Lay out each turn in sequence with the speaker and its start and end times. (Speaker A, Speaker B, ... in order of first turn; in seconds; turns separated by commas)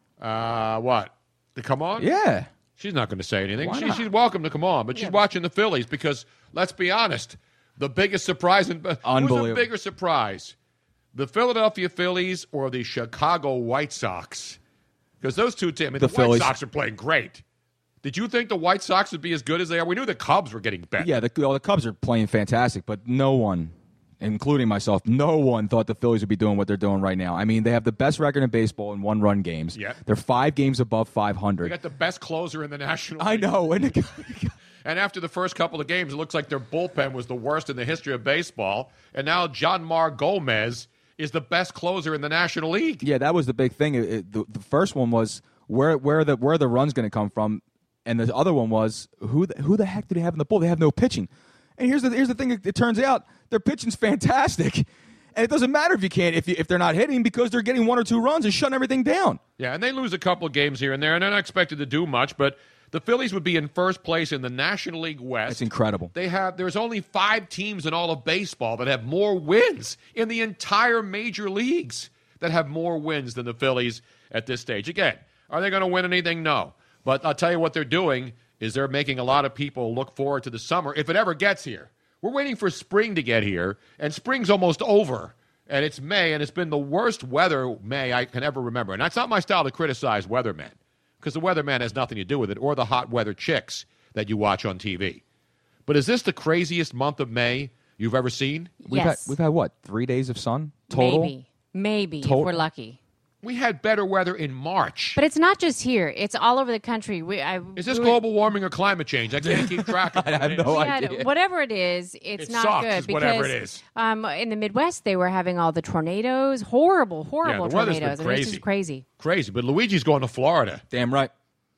Speaker A: 0.2-2.1, Speaker B: 2.0-2.5, Speaker A: 2.8-10.5, Speaker B: 3.6-4.1, Speaker B: 9.0-9.7, Speaker A: 11.1-14.6, Speaker A: 15.2-17.4, Speaker B: 16.0-16.5, Speaker A: 18.0-21.2, Speaker B: 21.0-31.8, Speaker A: 31.6-34.0, Speaker B: 33.2-34.5, Speaker A: 34.9-43.0, Speaker B: 43.0-59.4, Speaker A: 59.6-95.2, Speaker B: 65.5-66.1, Speaker A: 95.9-98.7, Speaker C: 98.8-99.3, Speaker B: 98.9-101.3, Speaker C: 100.9-103.0, Speaker B: 102.2-102.6, Speaker A: 103.4-105.2, Speaker C: 105.2-108.2, Speaker A: 107.8-111.0, Speaker B: 109.4-111.3, Speaker C: 110.7-119.0, Speaker A: 112.4-113.8, Speaker A: 117.4-118.6, Speaker A: 119.2-120.8, Speaker B: 120.9-121.3